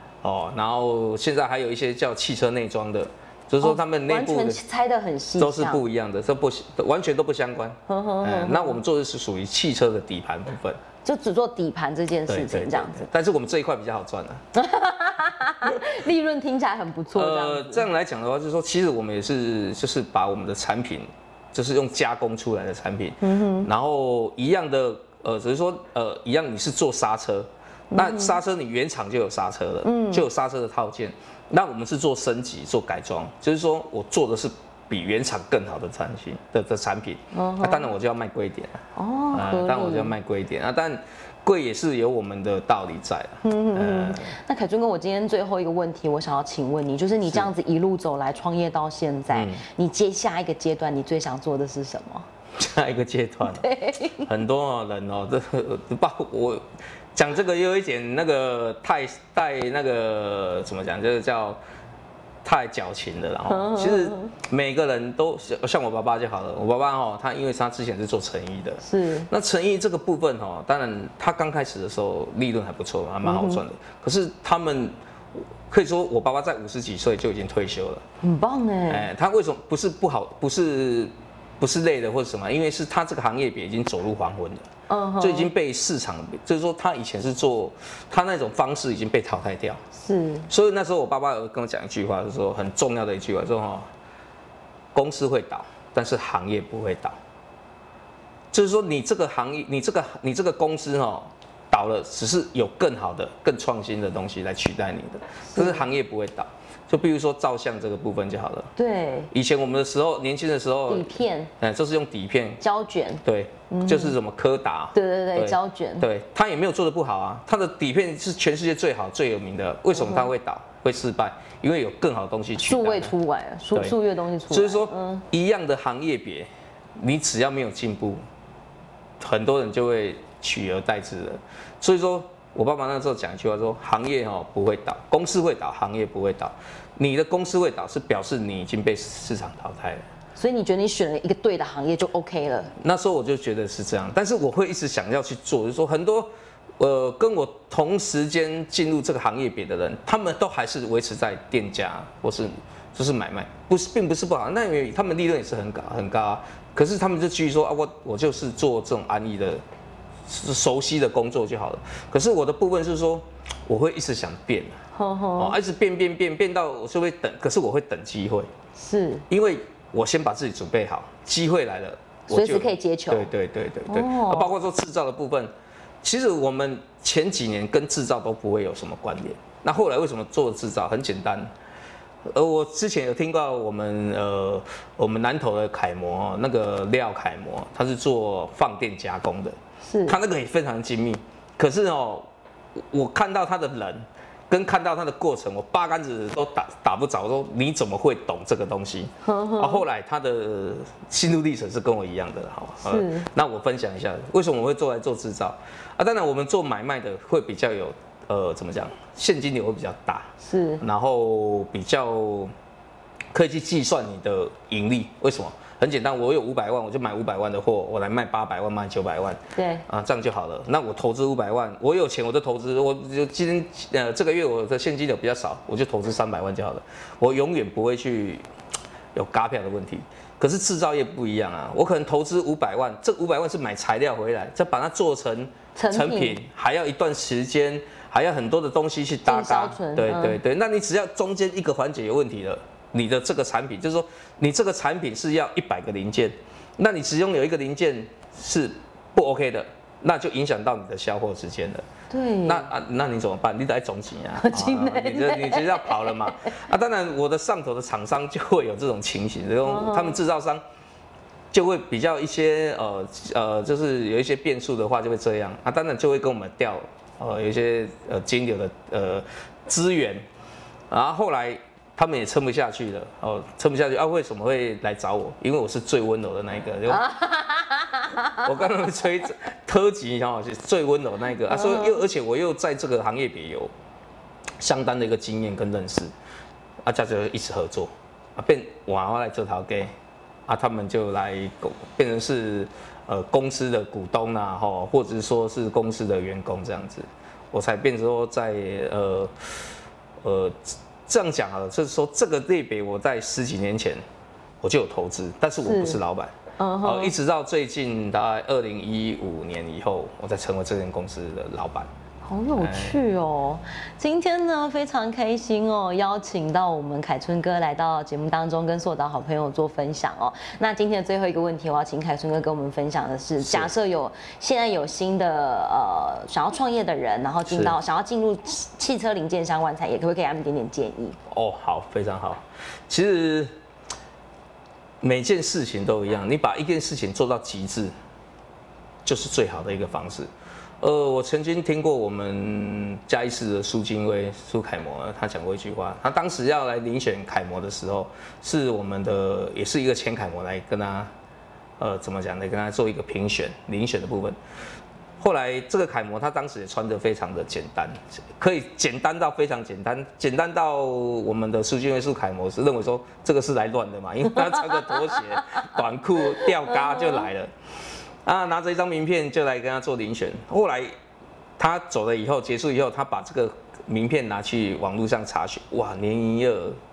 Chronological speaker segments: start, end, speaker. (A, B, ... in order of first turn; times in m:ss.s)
0:00.2-0:04.6 A
0:03.6-0:05.8 B
0:05.4-0:10.8 A
0:07.9-0:08.8 B
0:11.0-0:13.1 B
0:12.3-0:14.4 A
0:14.5-0:17.9 B
0:17.1-0:44.3 A
0:23.2-0:23.7 B
0:27.9-0:28.4 B
0:29.8-0:30.2 B
0:37.3-0:37.9 B
0:38.9-0:40.1 B
0:43.4-0:52.3 B
0:49.3-0:49.6 A
0:52.6-0:53.6 A
0:53.4-0:54.3 B
0:54.2-1:01.6 A
1:02.4-1:14.9 A
1:03.5-1:04.3 B
1:08.8-1:09.3 B
1:13.2-1:13.6 B
1:15.7-1:18.0 A
1:18.2-1:19.1 B
1:18.9-1:24.7 A
1:24.9-1:25.5 B
1:25.2-1:29.8 A
1:30.0-1:30.5 B
1:30.5-1:33.9 A
1:34.9-1:37.2 A
1:38.5-1:48.7 A
1:45.5-1:45.8 B
1:48.8-1:49.3 B
1:49.3-1:52.6 A
1:50.9-1:51.5 B
1:52.6-1:54.2 B
1:53.2-2:03.1 A
1:54.9-1:56.1 B
1:59.9-2:00.3 B
2:02.6-2:05.2 B
2:04.5-2:08.2 A
2:09.2-2:20.0 A
2:20.4-2:22.7 B
2:22.8-2:39.6 A
2:40.3-2:44.8 A
2:44.9-2:45.6 B
2:45.4-2:48.5 A
2:48.8-2:49.2 B
2:49.3-2:55.5 A
2:52.3-2:53.3 B
2:53.9-2:54.5 B
2:56.0-3:01.5 A
3:02.2-3:32.5 A
3:09.8-3:10.2 B
3:19.2-3:19.8 B
3:22.8-3:23.3 B
3:30.4-3:30.8 B
3:33.3-3:48.4 A
3:39.5-3:39.8 B
3:49.1-4:11.9 A
3:55.8-3:56.4 B
3:59.2-4:00.4 B
4:12.1-4:12.7 B
4:12.4-4:20.6 A
4:14.4-4:16.4 B
4:19.6-4:20.2 B
4:21.5-4:30.2 A
4:30.9-4:37.0 A
4:36.9-4:38.7 B
4:38.4-4:43.7 A
4:41.5-4:42.0 B
4:44.6-4:46.1 A
4:46.8-4:49.9 A
4:50.5-4:59.4 A
5:00.2-5:04.0 A
5:04.6-5:11.9 A
5:05.6-5:06.0 B
5:06.6-5:07.1 B
5:12.2-5:31.2 B
5:12.6-5:13.0 A
5:23.4-5:23.7 A
5:27.4-5:27.8 A
5:31.3-5:33.5 A
5:35.0-5:37.9 A
5:39.0-5:40.3 A
5:40.8-5:51.1 A
5:51.8-5:54.4 A
5:55.2-6:07.5 A
6:04.4-6:05.6 B
6:06.3-6:07.3 B
6:08.2-6:10.9 A
6:11.6-6:16.8 A